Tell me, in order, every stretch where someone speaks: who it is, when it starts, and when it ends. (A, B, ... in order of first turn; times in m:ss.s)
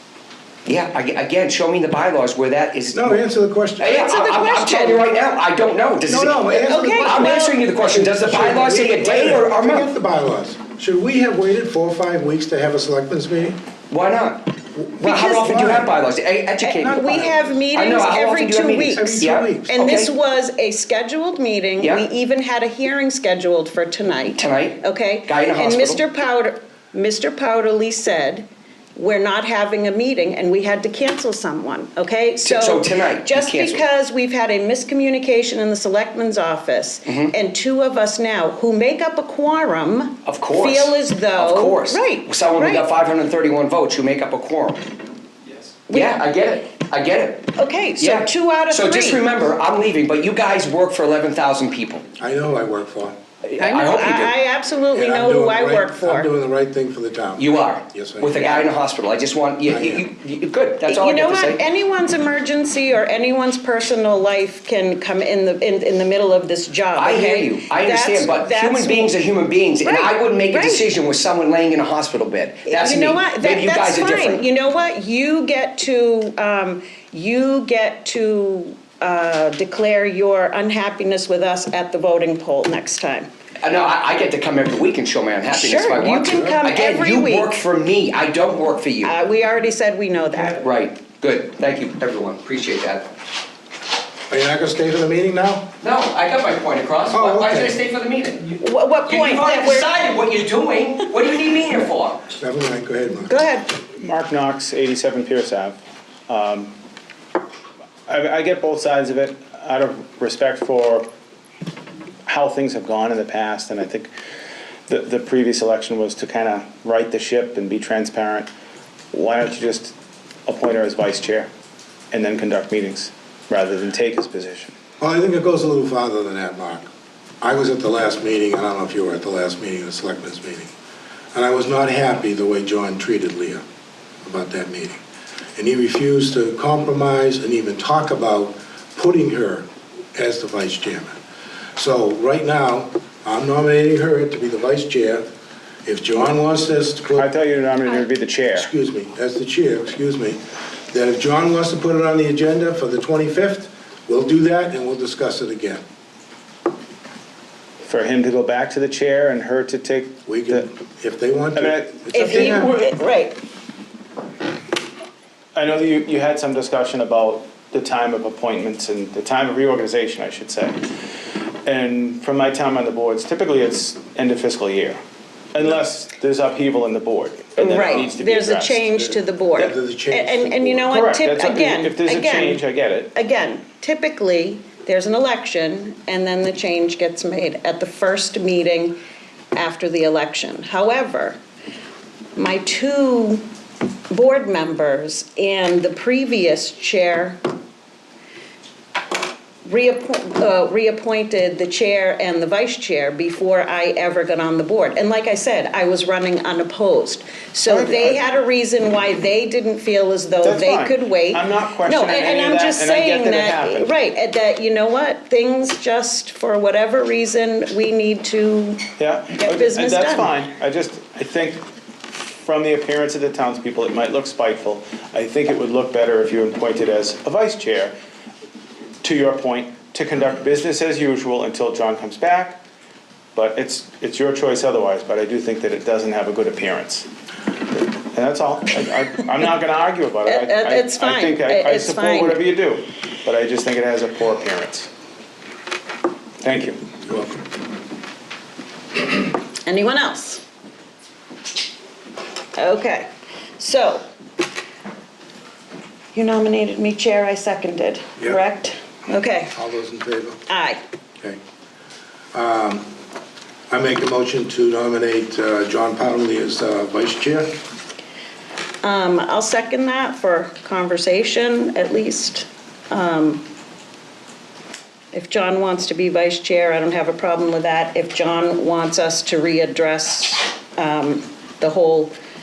0:00.6-0:03.2 A
0:02.9-0:04.0 B
0:03.8-0:09.9 A
0:03.9-0:05.0 C
0:06.1-0:13.6 B
0:06.6-0:07.6 C
0:13.9-0:20.1 A
0:15.0-0:15.9 B
0:16.6-0:42.8 C
0:16.9-0:17.6 B
0:18.8-0:19.7 B
0:21.8-0:22.0 A
0:24.3-0:26.0 A
0:32.4-0:33.8 A
0:37.1-0:37.3 A
0:40.2-0:44.8 A
0:45.9-0:46.2 C
0:45.9-0:52.0 A
0:47.6-0:49.4 C
0:52.2-0:53.2 B
0:53.5-0:54.3 A
0:53.6-0:56.3 C
0:54.9-0:58.6 B
0:57.4-1:01.6 A
0:59.7-1:00.0 B
1:00.9-1:09.1 C
1:07.0-1:14.4 A
1:09.8-1:10.9 C
1:12.6-1:23.3 C
1:23.6-1:29.1 A
1:25.5-1:27.5 C
1:26.2-1:26.6 B
1:29.0-1:30.6 C
1:30.5-1:33.1 A
1:34.3-1:35.7 B
1:35.8-1:42.2 A
1:37.1-1:37.8 B
1:38.6-1:39.9 C
1:42.4-1:43.3 B
1:43.3-1:43.7 C
1:43.9-1:45.8 D
1:46.3-1:46.7 D
1:48.1-1:51.1 D
1:52.2-1:54.1 D
1:54.9-1:58.5 D
1:59.1-1:59.9 D
2:00.5-2:01.5 D
2:02.1-2:04.7 D
2:05.0-2:06.9 B
2:07.4-2:10.7 B
2:11.3-2:13.6 B
2:14.2-2:15.0 B
2:15.6-2:21.1 B
2:21.8-2:25.2 B
2:25.8-2:27.3 B
2:27.1-2:28.7 D
2:28.6-2:30.4 B
2:30.9-2:35.8 B
2:37.8-2:40.6 D
2:40.3-2:42.8 B
2:41.6-2:42.8 D
2:42.1-2:43.4 C
2:45.5-2:50.8 D
2:51.6-2:55.0 D
2:55.5-2:59.1 D
2:57.6-3:09.0 C
2:59.6-3:00.8 B
3:00.9-3:03.1 D
3:09.5-3:11.4 C
3:12.4-3:13.4 C
3:14.1-3:17.4 C
3:19.6-3:40.3 C
3:27.7-3:28.2 D
3:30.4-3:33.9 D
3:39.0-3:41.6 D
3:42.2-3:47.9 D
3:49.0-3:52.6 D
3:53.3-3:57.0 D
3:57.7-4:04.9 D
4:00.2-4:02.4 C
4:06.4-4:06.8 D
4:07.1-4:07.4 B
4:09.6-4:10.4 C
4:12.6-4:13.1 C
4:13.6-4:14.0 C
4:16.1-4:19.5 C
4:19.5-4:20.4 B
4:20.5-4:20.8 C
4:22.3-4:22.9 B
4:23.7-4:27.5 B
4:28.8-4:33.4 C
4:35.1-4:42.1 C